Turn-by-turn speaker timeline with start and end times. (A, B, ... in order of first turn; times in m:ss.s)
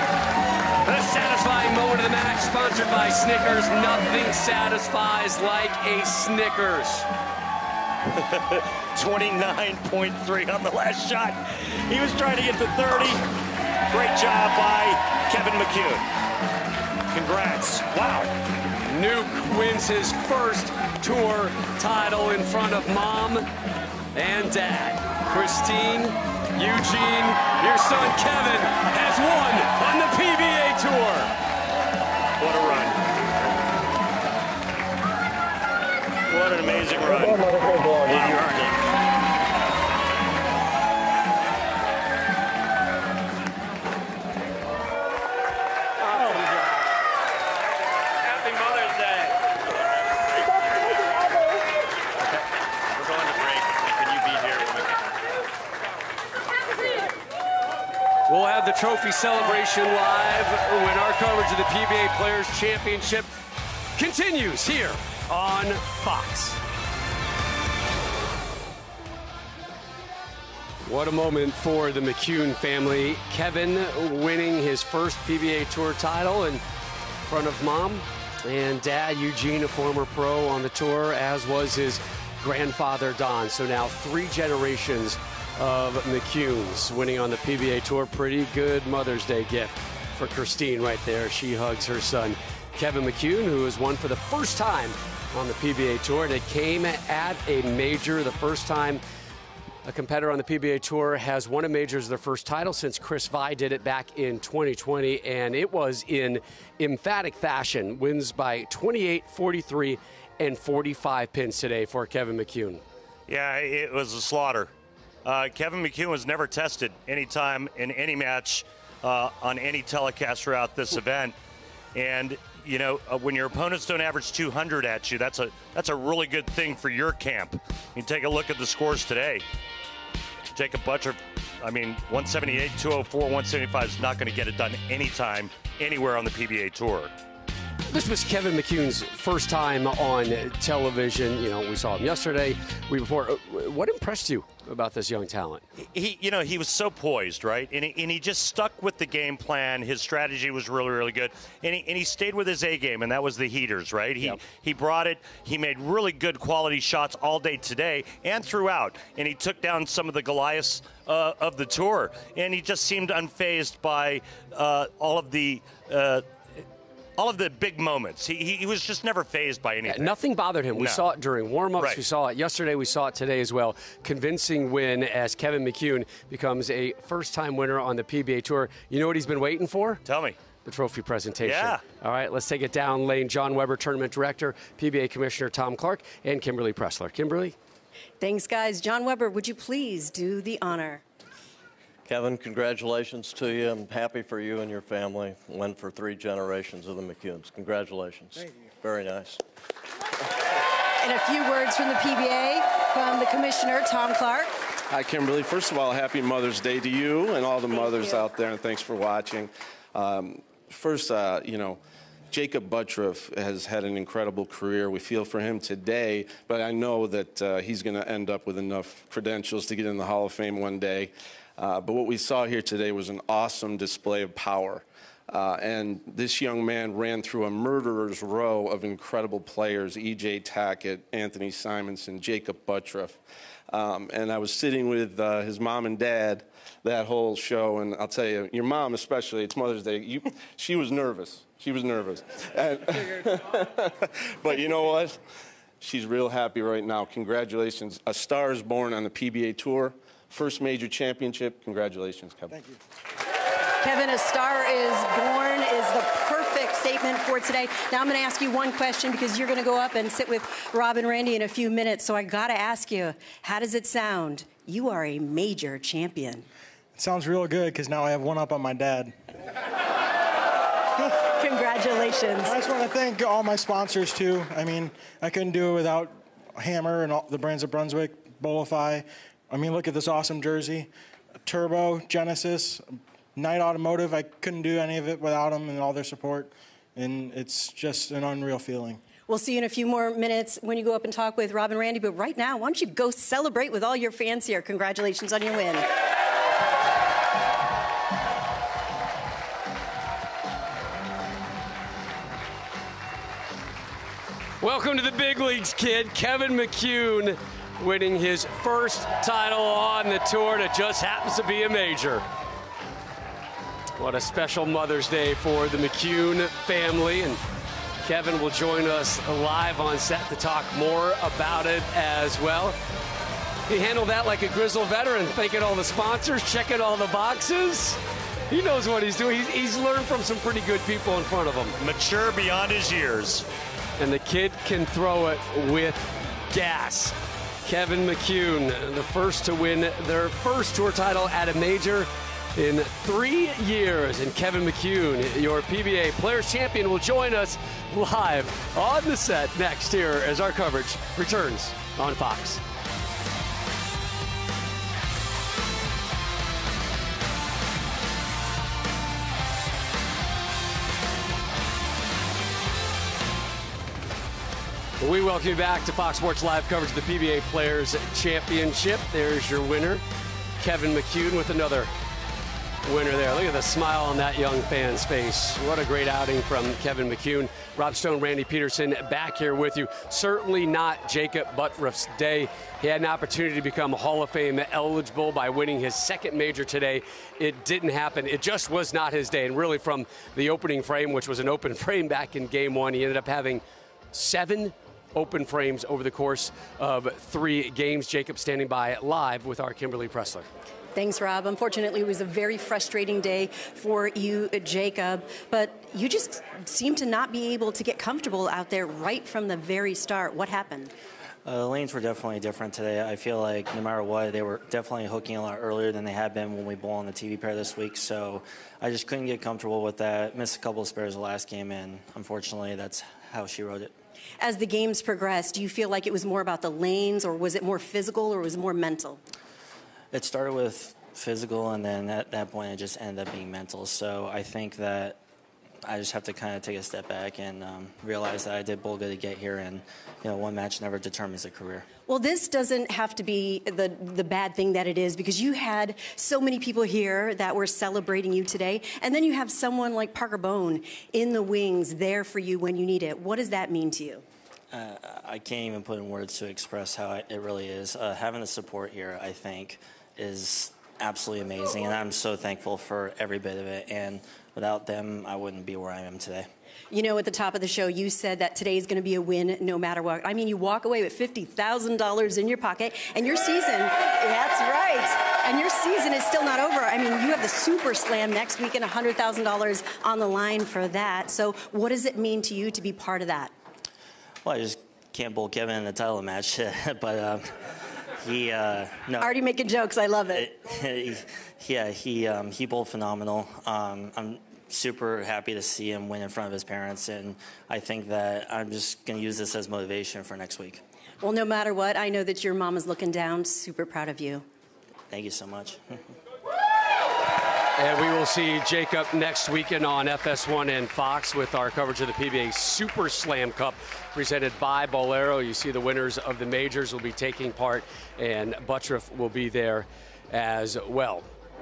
0:00.8-0:07.1 A
0:08.2-0:13.2 B
0:13.9-0:16.0 B
0:17.1-0:18.3 B
0:18.9-0:23.5 A
0:24.1-0:31.3 A
0:32.4-0:33.0 B
0:36.3-0:38.8 B
0:46.1-0:46.5 B
0:48.3-0:49.3 B
0:52.9-0:54.9 B
0:58.3-1:03.3 A
1:04.0-1:06.6 A
1:10.8-1:16.6 A
1:17.2-1:39.0 A
1:39.8-1:52.8 A
1:53.3-1:54.7 B
1:55.2-2:01.3 B
2:01.9-2:09.4 B
2:10.5-2:17.1 B
2:17.9-2:25.6 A
2:25.8-2:46.2 B
2:47.2-2:50.2 B
2:49.9-3:00.0 A
2:50.7-2:51.0 B
3:00.0-3:00.4 B
3:00.6-3:07.5 A
3:01.4-3:01.8 B
3:08.2-3:11.0 C
3:12.0-3:19.4 D
3:21.0-3:24.5 C
3:24.9-3:31.8 E
3:32.3-3:53.2 E
3:53.7-4:05.2 E
4:05.8-4:12.6 E
4:12.5-4:12.8 F
4:13.8-4:26.4 C
4:27.0-4:29.1 F
4:31.4-4:32.6 C
4:32.4-4:40.9 F
4:41.4-4:42.8 F
4:43.4-4:49.0 F
4:49.3-4:55.9 C
5:04.6-5:12.2 A
5:14.0-5:17.4 A
5:18.0-5:22.8 A
5:23.7-5:31.8 A
5:31.8-5:33.4 B
5:34.0-5:52.6 A
6:05.0-6:10.0 A
6:10.6-6:11.9 A
6:12.8-6:40.5 A
6:41.0-6:50.9 C
6:51.4-7:03.9 G
7:04.4-7:09.2 C
7:10.1-7:15.2 G
7:15.8-7:21.9 G
7:22.1-7:34.2 C
7:34.7-7:46.5 G
7:46.9-8:03.5 C
8:04.4-8:07.5 G
8:08.2-8:09.4 G
8:09.2-8:10.5 C
8:10.3-8:20.8 G
8:21.2-8:24.4 C
8:25.1-8:26.0 G
8:27.8-8:41.3 A